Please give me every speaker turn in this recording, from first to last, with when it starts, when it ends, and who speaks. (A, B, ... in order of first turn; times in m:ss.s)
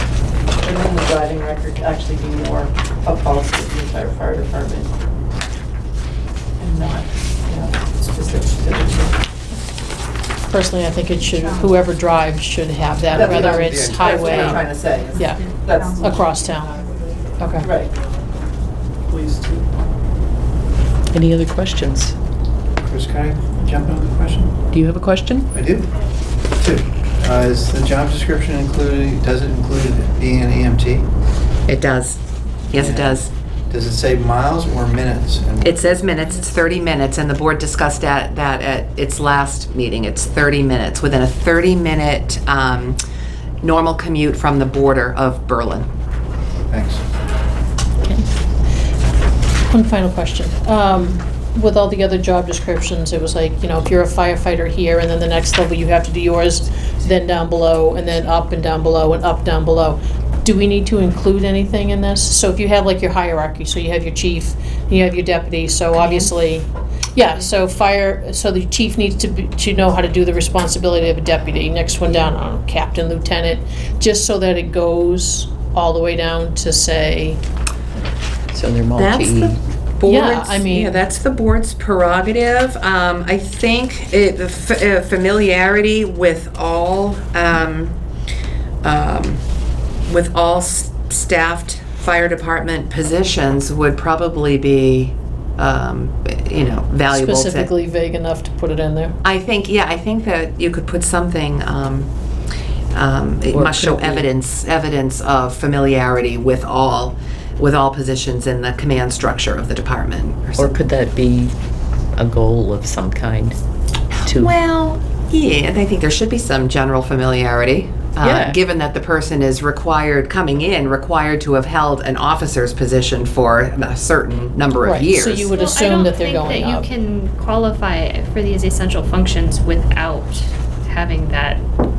0:00.6-0:04.9 A
0:06.6-0:09.2 A
0:10.5-0:16.8 B
0:13.1-0:16.2 A
0:13.2-0:13.7 C
0:13.6-0:14.1 D
0:17.4-0:17.7 B
0:17.6-0:17.9 A
0:19.1-0:19.6 A
0:21.1-0:22.2 E
0:22.8-0:24.5 C
0:24.7-0:25.5 E
0:25.5-0:25.9 C
0:26.6-0:31.1 C
0:31.7-0:32.2 D
0:32.7-0:33.3 D
0:32.7-0:35.8 C
0:35.6-0:43.0 D
0:43.6-0:45.9 D
0:46.7-0:47.0 C
0:49.7-1:17.4 B
1:18.5-1:19.6 E
1:19.0-1:28.0 D
1:20.0-1:21.0 B
1:28.8-1:29.4 D
1:30.1-1:37.7 D
1:37.1-1:39.2 B
1:39.2-1:42.1 D
1:42.9-1:50.9 D
1:43.5-1:44.3 E
1:50.6-1:51.5 E
1:52.2-1:53.6 E
1:54.2-2:05.5 D
1:54.2-1:54.5 E
1:58.2-1:58.6 E
2:04.8-2:06.9 B
2:05.5-2:11.6 F